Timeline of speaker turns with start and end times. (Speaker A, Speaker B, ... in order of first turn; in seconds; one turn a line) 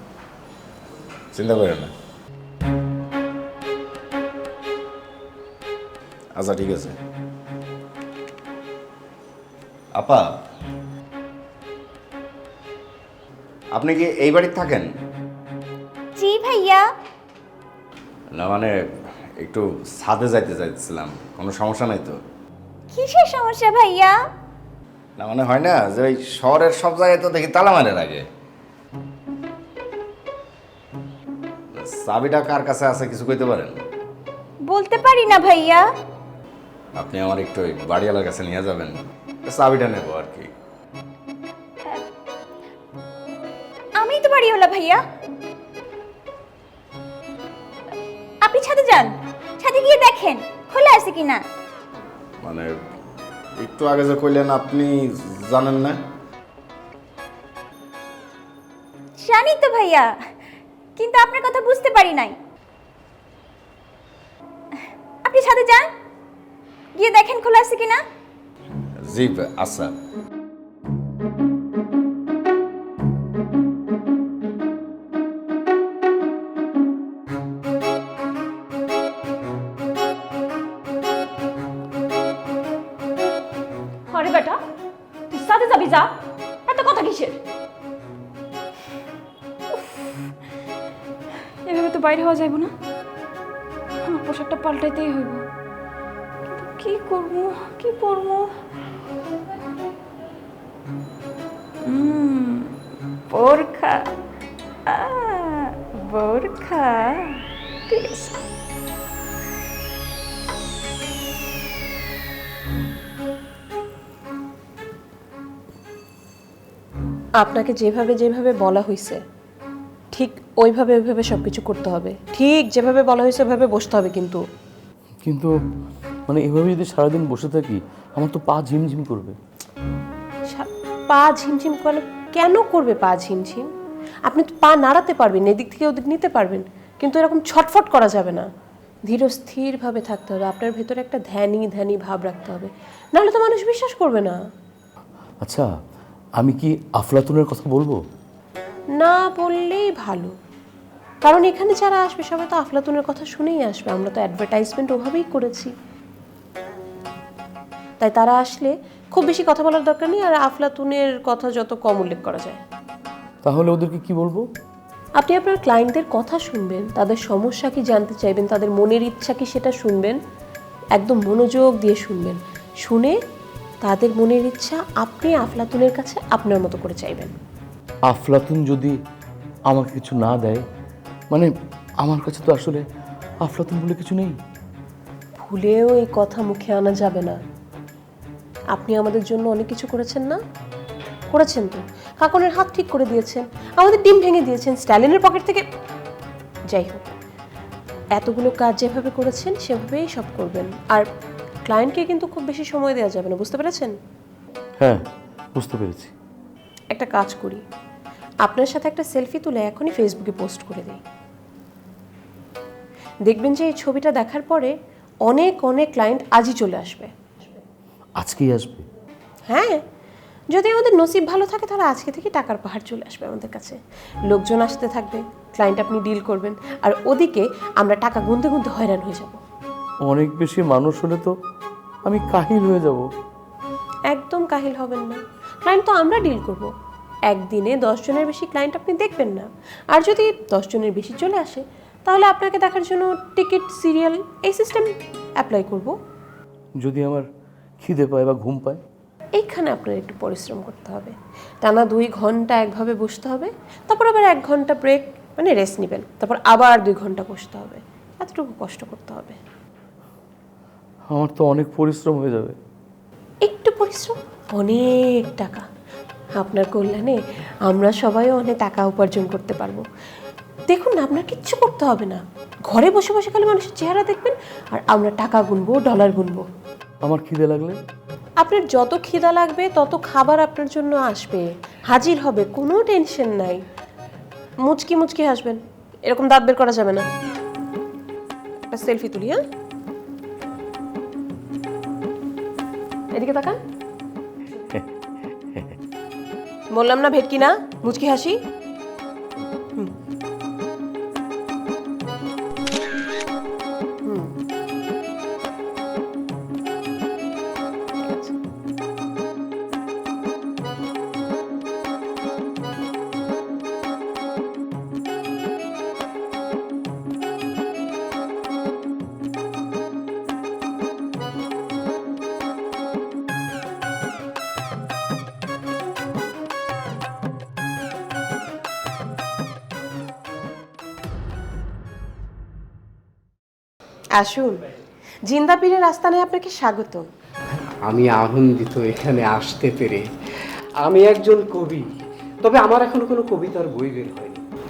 Speaker A: 1.3-1.9
Speaker A: 6.4-7.0
Speaker A: 9.9-10.2
Speaker A: 13.7-14.9
Speaker B: 16.2-16.8
Speaker A: 18.3-18.7
Speaker A: 19.4-22.2
Speaker B: 22.9-24.1
Speaker A: 25.2-28.2
Speaker A: 31.8-33.7
Speaker B: 34.7-35.8
Speaker A: 37.0-38.9
Speaker A: 39.5-40.5
Speaker B: 44.0-45.0
Speaker B: 48.4-51.4
Speaker A: 53.6-56.0
Speaker B: 59.2-60.1
Speaker B: 61.0-62.4
Speaker B: 65.2-65.9
Speaker B: 67.0-68.0
Speaker A: 69.0-69.9
Speaker C: 84.1-84.6
Speaker C: 85.3-86.1
Speaker C: 86.7-87.4
Speaker C: 91.7-92.7
Speaker C: 94.1-95.4
Speaker B: 96.6-98.5
Speaker B: 101.9-102.7
Speaker B: 103.3-104.0
Speaker B: 104.9-107.1
Speaker B: 107.9-108.3
Speaker D: 117.4-119.2
Speaker D: 120.1-124.4
Speaker E: 125.2-125.5
Speaker E: 126.3-129.3
Speaker D: 130.5-133.7
Speaker D: 134.3-138.5
Speaker D: 139.1-144.4
Speaker E: 146.4-147.9
Speaker D: 149.0-150.3
Speaker D: 151.2-155.7
Speaker D: 158.0-162.6
Speaker E: 163.4-164.4
Speaker D: 165.2-170.2
Speaker D: 171.0-173.2
Speaker D: 173.8-177.3
Speaker E: 178.1-178.9
Speaker E: 179.7-180.6
Speaker E: 182.0-182.8
Speaker E: 183.5-184.3
Speaker D: 185.4-187.4
Speaker D: 188.7-190.4
Speaker D: 191.3-195.6
Speaker D: 196.7-197.1
Speaker D: 198.2-201.1
Speaker D: 201.7-203.9
Speaker E: 205.6-206.1
Speaker D: 206.9-207.6
Speaker D: 208.4-211.0
Speaker D: 213.3-214.7
Speaker D: 215.2-217.6
Speaker E: 218.2-218.8
Speaker D: 219.5-219.8
Speaker D: 220.5-229.4
Speaker E: 230.1-231.3
Speaker E: 232.1-233.0
Speaker D: 234.1-236.7
Speaker D: 237.3-244.9
Speaker D: 245.4-245.9
Speaker E: 246.8-247.3
Speaker E: 247.8-248.8
Speaker D: 249.3-259.4
Speaker E: 261.1-262.6
Speaker D: 263.4-265.6
Speaker D: 266.4-269.8
Speaker D: 270.7-276.4
Speaker E: 277.1-277.8
Speaker D: 278.4-283.6
Speaker D: 284.6-287.1
Speaker D: 288.7-289.4
Speaker D: 293.1-293.6
Speaker D: 296.7-298.4
Speaker D: 304.1-304.3
Speaker D: 308.0-308.4
Speaker D: 334.2-334.6
Speaker D: 335.3-337.0
Speaker F: 337.9-340.0
Speaker F: 340.9-341.9
Speaker F: 342.4-344.4